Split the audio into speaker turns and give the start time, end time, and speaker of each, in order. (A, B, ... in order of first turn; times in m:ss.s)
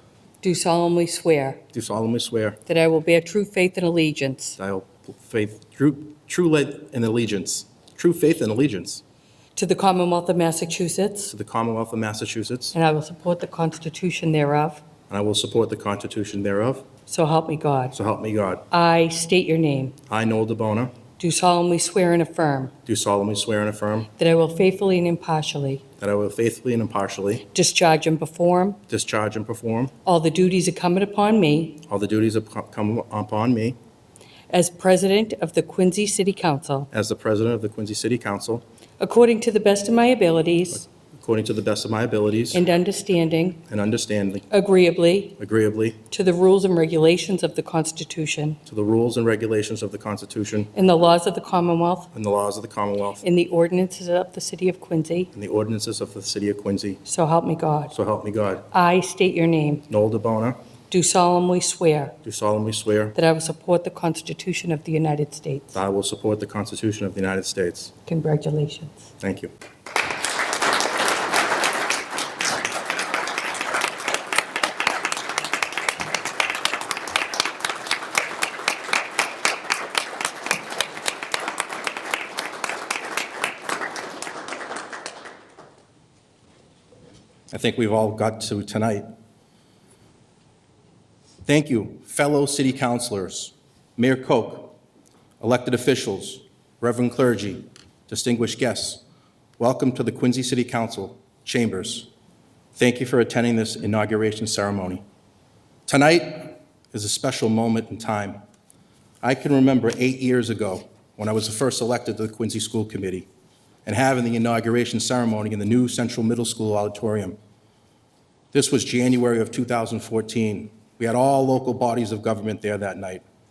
0:00.4-0:01.6 A
0:01.7-0:02.6 B
0:02.6-0:04.6 A
0:04.6-0:09.0 B
0:09.6-0:11.3 A
0:11.3-0:12.8 B
0:12.7-0:14.8 A
0:15.1-0:16.9 B
0:17.1-0:18.0 A
0:17.9-0:18.6 B
0:18.7-0:19.9 A
0:20.1-0:20.9 B
0:21.2-0:22.7 A
0:22.8-0:24.1 B
0:24.1-0:25.8 A
0:26.0-0:27.4 B
0:27.5-0:28.8 A
0:28.9-0:29.9 B
0:30.0-0:31.8 A
0:31.8-0:33.8 B
0:34.5-0:36.9 A
0:36.9-0:38.6 B
0:39.0-0:40.8 A
0:41.1-0:42.6 B
0:42.5-0:43.6 A
0:43.7-0:44.5 B
0:44.5-0:45.4 A
0:45.4-0:46.0 B
0:46.1-0:48.6 A
0:48.6-0:50.7 B
0:50.7-0:52.1 A
0:52.1-0:53.2 B
0:53.2-0:55.3 A
0:55.3-0:57.0 B
0:57.0-0:58.0 A
0:57.9-0:58.7 B
0:58.7-0:59.9 A
0:59.9-1:00.6 B
1:00.9-1:02.2 A
1:02.2-1:03.2 B
1:03.1-1:05.8 A
1:05.7-1:07.9 B
1:08.0-1:09.1 A
1:09.2-1:09.5 B
1:27.5-1:29.0 B
1:31.5-1:34.8 B
1:35.4-1:39.0 B
1:39.6-1:42.1 B
1:42.8-1:45.0 B
1:45.9-1:48.4 B
1:49.2-1:53.3 B
1:53.8-1:57.4 B
1:58.5-2:03.2 B